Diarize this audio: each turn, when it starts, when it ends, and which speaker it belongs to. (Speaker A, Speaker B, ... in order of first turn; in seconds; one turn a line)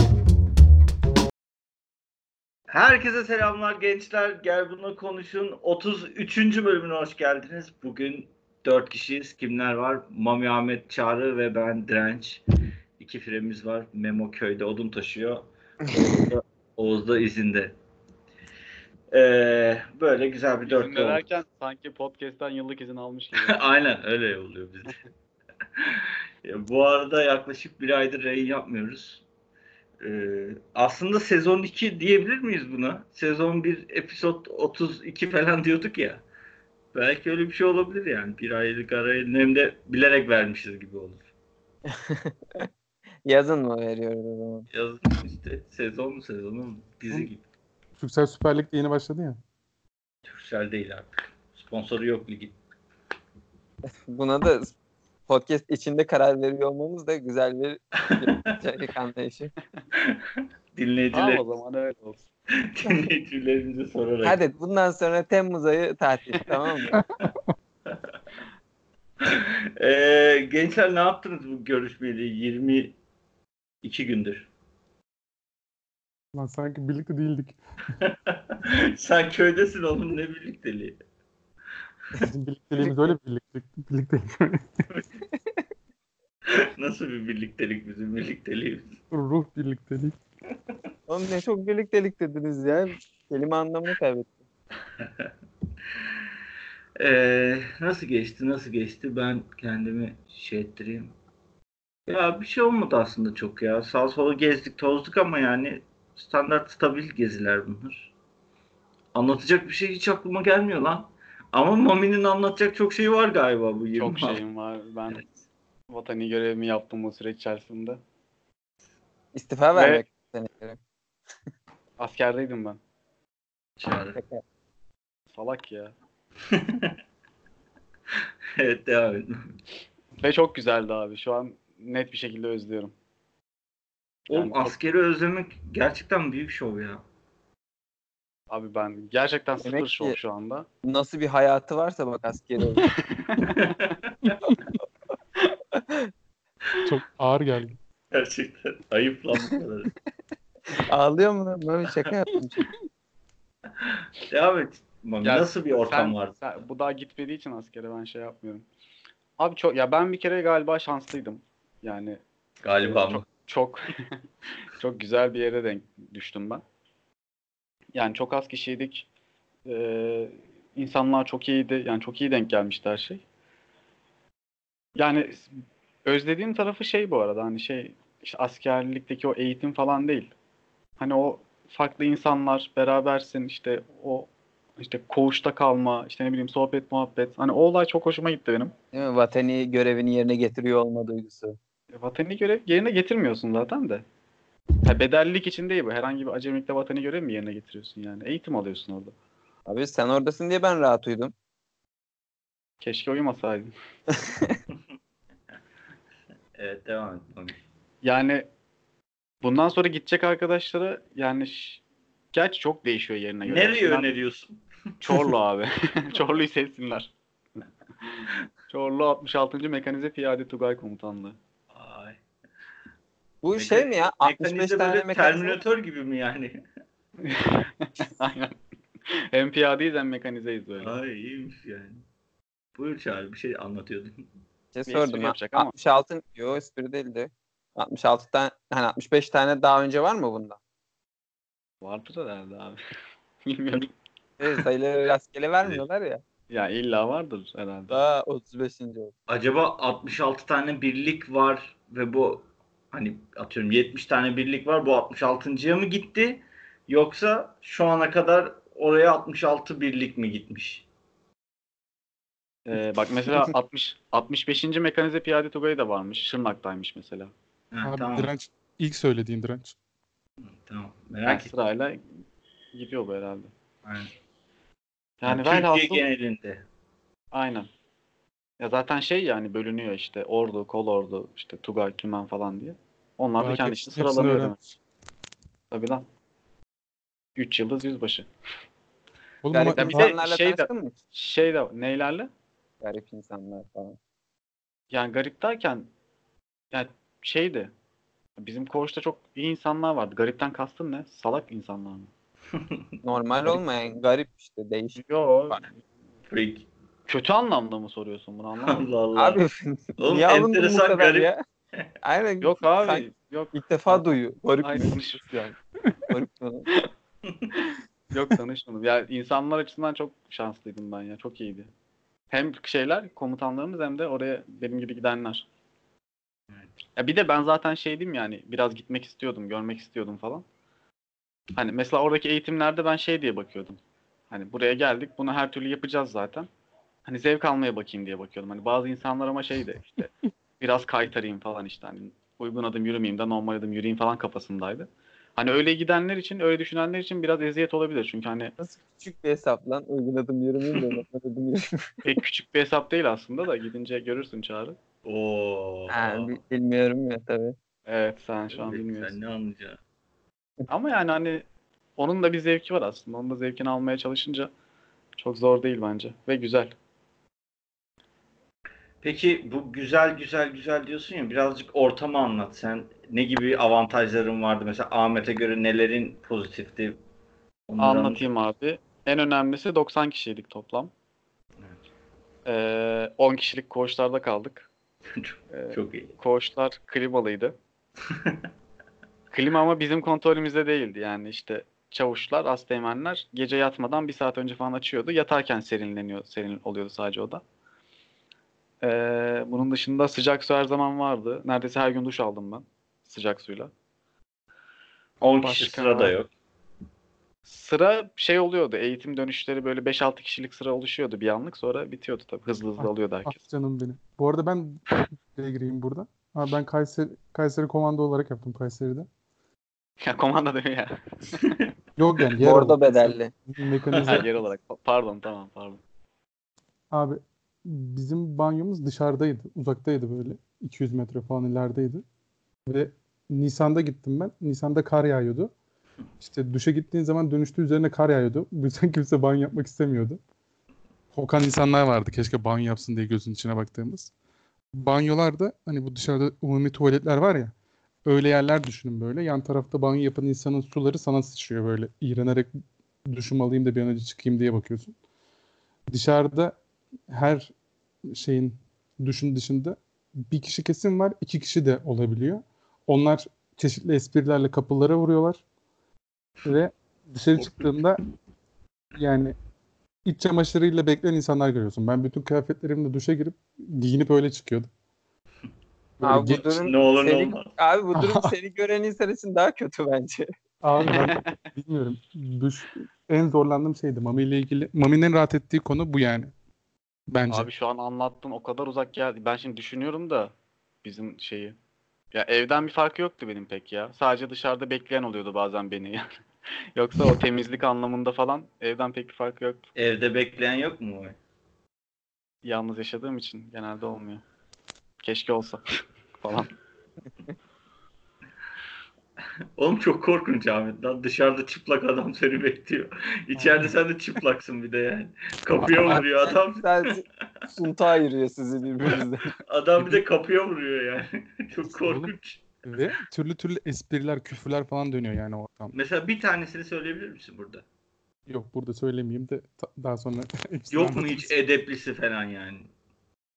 Speaker A: 2.7-12.4
Speaker A: 13.0-17.7
Speaker A: 19.1-21.2
Speaker B: 20.6-23.6
Speaker A: 23.4-25.0
Speaker A: 25.8-29.2
Speaker A: 30.0-36.2
Speaker A: 36.9-41.2
Speaker C: 41.9-42.7
Speaker C: 43.2-44.7
Speaker A: 44.7-47.4
Speaker D: 48.0-49.4
Speaker A: 50.2-52.5
Speaker C: 53.9-54.7
Speaker C: 55.3-59.5
Speaker A: 59.9-61.4
Speaker B: 61.1-62.2
Speaker A: 62.5-64.4
Speaker C: 64.2-66.9
Speaker D: 67.0-67.5
Speaker A: 67.9-68.1
Speaker A: 69.2-72.9
Speaker A: 73.8-74.5
Speaker D: 76.3-77.6
Speaker A: 78.0-81.0
Speaker D: 82.2-84.8
Speaker A: 86.5-89.0
Speaker D: 89.1-90.1
Speaker C: 91.1-94.3
Speaker A: 95.0-95.3
Speaker A: 96.0-96.2
Speaker A: 97.0-101.1
Speaker A: 102.1-108.1
Speaker A: 109.1-114.4
Speaker B: 114.0-115.3
Speaker B: 115.9-118.0
Speaker C: 119.3-120.8
Speaker B: 119.8-120.0
Speaker B: 122.0-122.8
Speaker A: 123.8-124.2
Speaker C: 124.1-124.4
Speaker B: 125.3-125.9
Speaker A: 126.5-127.0
Speaker A: 128.2-129.5
Speaker B: 130.2-132.9
Speaker A: 134.3-137.0
Speaker B: 134.3-134.7
Speaker B: 138.5-140.7
Speaker C: 139.6-140.2
Speaker C: 140.8-142.9
Speaker B: 143.1-143.5
Speaker A: 143.5-144.3
Speaker D: 146.8-147.8
Speaker A: 148.1-149.9
Speaker C: 150.7-152.7
Speaker A: 153.8-156.3
Speaker B: 155.2-158.7
Speaker B: 159.4-162.2
Speaker A: 162.6-163.2
Speaker B: 162.8-166.6
Speaker B: 167.9-169.1
Speaker B: 169.7-173.2
Speaker B: 174.9-175.5
Speaker B: 176.0-180.3
Speaker B: 181.0-188.7
Speaker C: 188.9-191.6
Speaker B: 191.9-194.0
Speaker B: 194.8-199.1
Speaker C: 199.7-201.3
Speaker B: 202.8-203.7
Speaker A: 206.6-207.6
Speaker B: 208.0-208.4
Speaker B: 209.4-211.8
Speaker B: 212.3-214.1
Speaker A: 213.4-214.6
Speaker B: 215.0-217.1
Speaker B: 218.0-221.3
Speaker A: 221.7-222.2
Speaker C: 223.4-225.6
Speaker A: 223.5-226.6
Speaker B: 227.2-228.6
Speaker B: 229.1-230.9
Speaker A: 230.8-232.0
Speaker A: 232.8-234.2
Speaker C: 234.7-240.6
Speaker B: 234.9-235.7
Speaker B: 241.8-242.8
Speaker B: 243.4-243.9
Speaker C: 244.4-246.2
Speaker B: 246.5-247.9
Speaker C: 247.9-249.1
Speaker A: 249.3-260.9
Speaker B: 262.6-267.3
Speaker A: 267.7-268.3
Speaker D: 267.8-269.8
Speaker A: 270.5-271.5
Speaker B: 271.2-272.2
Speaker B: 272.7-273.5
Speaker A: 273.8-274.1
Speaker B: 275.2-276.0
Speaker A: 275.2-276.6
Speaker B: 277.3-277.7
Speaker B: 278.6-284.6
Speaker D: 283.4-284.6
Speaker B: 285.7-286.0
Speaker B: 287.4-288.3
Speaker D: 289.4-290.1
Speaker C: 289.5-290.9
Speaker B: 289.7-292.3
Speaker C: 292.8-294.0
Speaker B: 294.9-295.9
Speaker B: 296.7-297.7
Speaker B: 298.4-302.1
Speaker A: 302.5-302.8
Speaker C: 303.0-305.6
Speaker B: 304.9-305.8
Speaker A: 306.3-306.7
Speaker B: 307.1-308.8
Speaker A: 308.6-309.4
Speaker C: 309.1-311.4
Speaker A: 310.0-311.3
Speaker C: 312.0-315.1
Speaker B: 312.4-314.0
Speaker B: 314.6-315.6
Speaker C: 316.1-316.7
Speaker B: 318.1-321.7
Speaker B: 322.3-325.4
Speaker B: 326.9-330.4
Speaker B: 331.5-333.8
Speaker B: 334.3-336.5
Speaker B: 337.1-348.5
Speaker C: 348.6-352.0
Speaker B: 352.0-354.8
Speaker A: 355.0-356.4
Speaker C: 355.9-357.6
Speaker B: 357.9-359.1
Speaker A: 358.5-359.8
Speaker B: 360.7-361.4
Speaker B: 362.0-364.5
Speaker B: 365.2-366.7
Speaker A: 369.0-377.0
Speaker A: 377.7-378.2
Speaker B: 377.8-380.9
Speaker B: 382.4-384.7
Speaker A: 385.1-386.1
Speaker B: 385.5-387.5
Speaker A: 388.1-388.4
Speaker B: 389.3-397.4
Speaker B: 398.8-403.7
Speaker A: 405.2-406.3
Speaker D: 405.4-406.1
Speaker B: 407.4-413.4
Speaker D: 412.8-419.1
Speaker B: 420.0-421.4
Speaker D: 422.0-424.3
Speaker C: 422.4-423.3
Speaker A: 423.9-424.2
Speaker B: 424.0-425.8
Speaker D: 426.9-432.0
Speaker D: 432.7-435.5
Speaker D: 436.2-440.2
Speaker D: 441.1-444.1
Speaker D: 444.7-447.5
Speaker D: 448.0-452.5
Speaker D: 453.1-454.9
Speaker D: 455.9-456.6
Speaker D: 457.1-457.5
Speaker D: 458.1-465.4
Speaker D: 466.4-468.0
Speaker A: 467.4-467.7
Speaker D: 468.9-469.3
Speaker D: 470.1-474.7
Speaker D: 476.0-476.4
Speaker C: 476.0-480.3
Speaker A: 476.3-477.5
Speaker D: 477.9-478.4
Speaker D: 480.6-486.3
Speaker B: 480.8-481.4
Speaker D: 487.1-487.5
Speaker B: 487.3-490.3
Speaker B: 490.8-491.6
Speaker B: 492.1-496.1
Speaker B: 496.8-499.7
Speaker A: 499.8-501.2
Speaker B: 502.4-504.2
Speaker B: 505.0-505.6
Speaker B: 506.2-506.5
Speaker A: 509.6-516.9
Speaker D: 513.4-513.7
Speaker C: 515.7-519.3
Speaker A: 519.5-522.5
Speaker D: 521.9-522.1
Speaker D: 522.6-525.7
Speaker A: 525.7-527.6
Speaker D: 528.3-531.3
Speaker A: 530.7-532.7